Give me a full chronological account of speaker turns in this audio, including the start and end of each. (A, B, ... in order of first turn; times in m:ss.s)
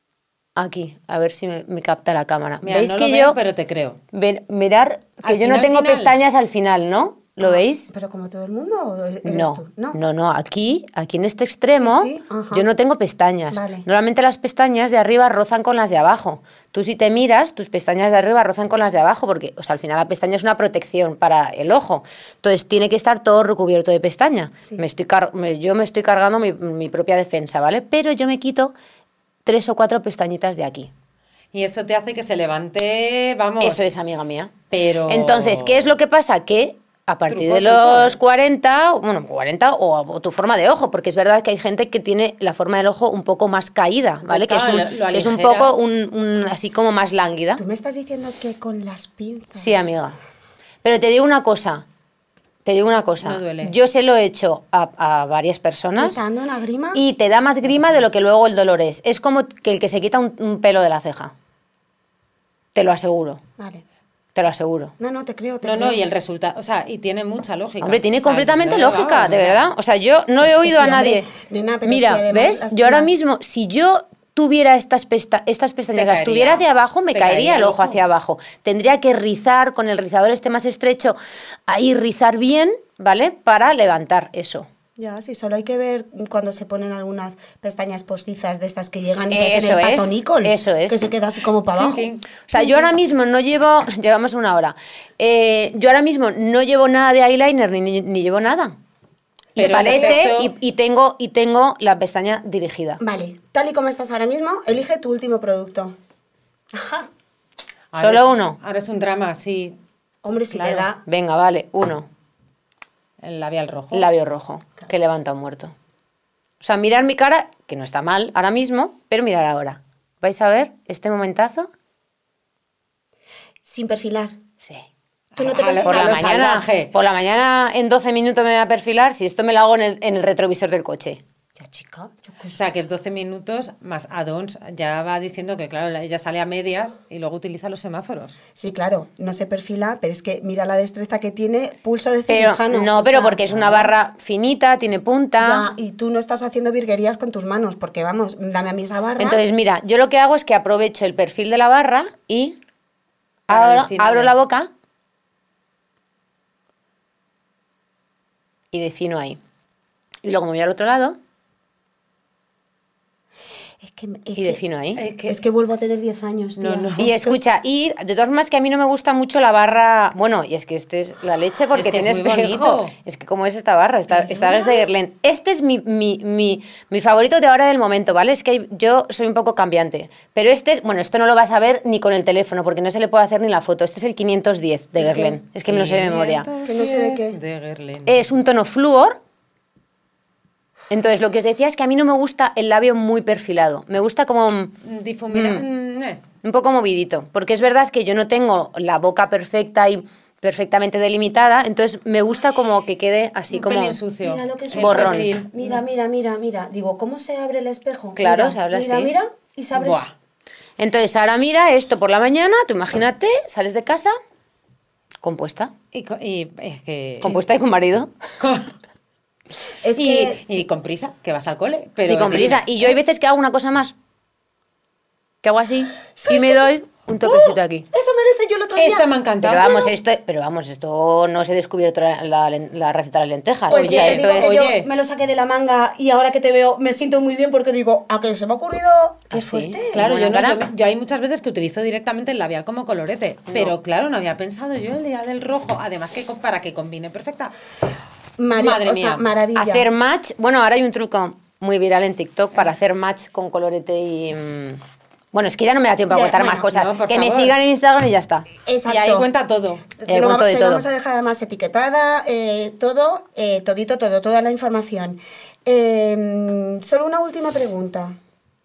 0:00.6-0:03.4 A
0:02.6-0:04.0 B
0:04.1-0:07.9 A
0:05.2-0:06.2 B
0:07.4-0:10.0 C
0:09.2-0:28.7 A
0:11.7-0:12.7 C
0:13.5-0:13.9 C
0:29.4-0:30.9 A
0:31.5-0:33.8 B
0:33.6-0:34.5 A
0:34.7-0:35.9 B
0:35.1-0:47.6 A
0:37.3-0:38.2 B
0:44.2-0:45.8 B
0:47.6-0:49.9 C
0:49.6-0:50.2 A
0:50.8-0:51.9 A
0:52.6-0:56.2 A
0:53.2-0:53.8 B
0:56.0-0:57.0 C
0:57.0-1:01.3 A
1:02.8-1:03.4 A
1:03.6-1:03.8 C
1:04.4-1:04.9 A
1:05.0-1:06.0 C
1:05.6-1:09.7 B
1:07.8-1:11.3 A
1:10.4-1:13.1 C
1:11.8-1:24.7 A
1:15.9-1:18.0 B
1:25.0-1:32.9 C
1:29.3-1:31.1 A
1:31.8-1:32.3 B
1:32.5-1:38.8 A
1:39.6-1:43.0 A
1:39.6-1:40.2 C
1:39.6-1:40.5 B
1:43.0-1:46.0 C
1:46.7-1:47.1 C
1:47.9-1:49.8 B
1:48.0-1:48.6 A
1:50.2-1:51.0 C
1:50.5-1:50.9 B
1:51.1-1:52.1 A
1:53.2-1:54.1 B
1:53.9-1:55.7 A
1:56.6-2:01.7 A
2:03.6-2:04.4 C
2:05.3-2:06.9 B
2:05.4-2:06.6 C
2:05.8-2:11.2 A
2:11.6-2:12.6 C
2:12.5-2:18.4 B
2:18.6-2:23.9 C
2:22.3-2:25.7 A
2:25.4-2:29.4 C
2:29.2-2:32.6 A
2:33.5-2:34.7 A
2:33.5-2:34.4 B
2:38.7-2:39.4 A
2:40.2-2:41.2 A
2:43.8-2:44.6 C
2:44.4-2:45.0 A
2:45.0-2:45.4 B
2:45.2-2:47.4 C
2:46.6-2:47.1 B
2:47.0-3:06.5 A
2:51.7-2:52.9 B
2:54.2-2:54.6 B
3:05.2-3:08.2 B
3:06.7-3:07.4 C
3:08.1-3:09.2 A
3:10.9-3:14.8 A
3:14.8-3:16.2 B
3:15.3-3:15.6 A
3:16.4-3:24.0 A
3:23.5-3:25.8 B
3:24.2-3:30.1 C
3:24.8-3:25.3 A
3:28.2-3:29.1 A
3:29.7-3:30.1 B
3:30.8-3:34.2 A
3:35.2-3:35.7 A
3:35.9-3:37.4 B
3:37.2-3:38.1 A
3:38.4-3:38.7 B
3:39.8-3:40.4 C
3:40.0-3:42.7 B
3:42.1-3:44.0 A
3:45.4-3:47.9 A
3:46.2-3:46.7 C
3:47.2-3:49.1 C
3:48.8-3:49.9 B
3:49.4-3:54.5 A
3:53.7-4:00.0 C
3:53.7-3:54.9 B
3:59.3-4:00.6 A
3:59.9-4:07.5 B
4:08.4-4:09.9 C
4:08.5-4:09.3 B
4:09.6-4:14.8 A
4:15.3-4:18.5 A
4:16.1-4:16.7 C
4:16.5-4:17.6 B
4:18.6-4:19.3 C
4:18.8-4:19.9 B
4:20.0-4:28.2 C
4:20.1-4:20.8 A